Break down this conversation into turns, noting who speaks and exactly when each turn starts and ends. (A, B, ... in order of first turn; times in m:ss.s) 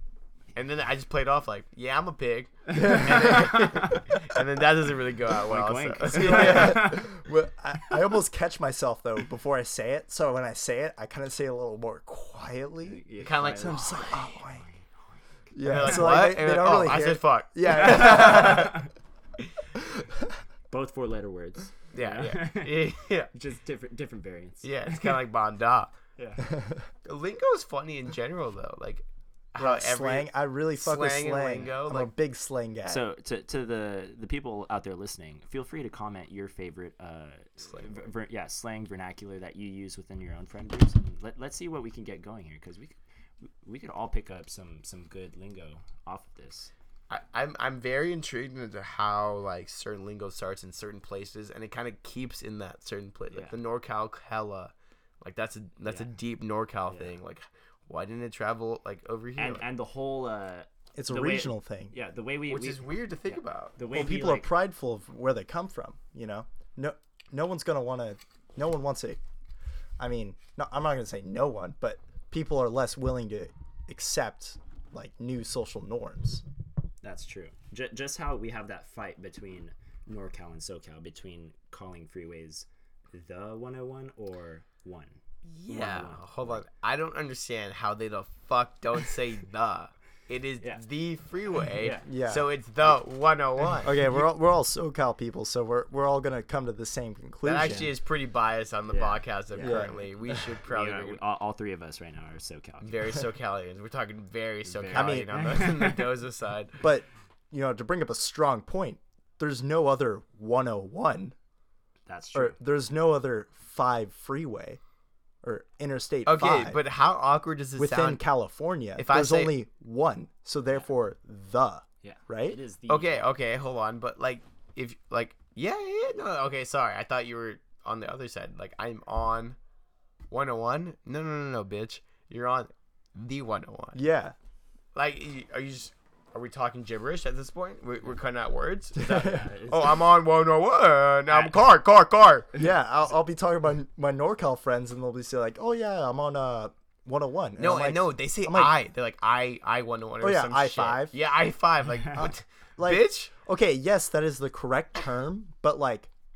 0:00.5-0:07.0 A
0:02.7-0:03.6 B
0:02.8-0:04.0 C
0:05.4-0:07.1 C
0:06.1-0:14.6 B
0:12.8-0:14.8 C
0:13.2-0:14.4 A
0:15.5-0:18.8 B
0:15.6-0:18.9 A
0:20.7-0:25.1 C
0:21.9-0:23.3 A
0:24.6-0:25.9 A
0:26.2-0:26.6 C
0:26.4-0:26.9 B
0:27.0-0:32.1 A
0:29.6-0:33.0 B
0:32.8-0:46.7 C
0:37.6-0:38.0 A
0:47.1-0:59.6 A
0:53.3-0:53.6 C
0:55.8-0:56.1 C
0:56.9-0:57.1 C
0:59.4-1:04.5 C
1:01.0-1:01.9 B
1:02.4-1:03.8 A
1:03.9-1:09.2 B
1:10.0-1:16.4 B
1:17.0-1:26.6 C
1:25.4-1:34.1 A
1:31.7-1:32.1 C
1:32.0-1:32.5 B
1:33.8-1:37.9 B
1:37.4-1:41.2 A
1:37.6-1:37.9 C
1:38.9-1:43.2 C
1:39.6-1:39.9 B
1:42.8-1:46.8 A
1:44.6-1:46.1 C
1:44.9-1:45.4 B
1:46.8-1:51.3 B
1:52.0-1:52.6 C
1:52.3-1:54.8 B
1:55.4-1:56.8 B
1:56.2-1:58.2 A
1:57.8-2:02.6 B
1:59.0-1:59.6 A
2:02.0-2:03.3 C
2:02.9-2:09.6 A
2:10.3-2:14.0 A
2:13.9-2:14.3 B
2:14.9-2:22.5 A
2:19.0-2:19.4 B
2:19.2-2:20.0 C
2:21.3-2:21.6 C
2:22.5-2:28.7 B
2:27.6-2:33.3 A
2:30.2-2:31.2 B
2:32.1-2:36.1 B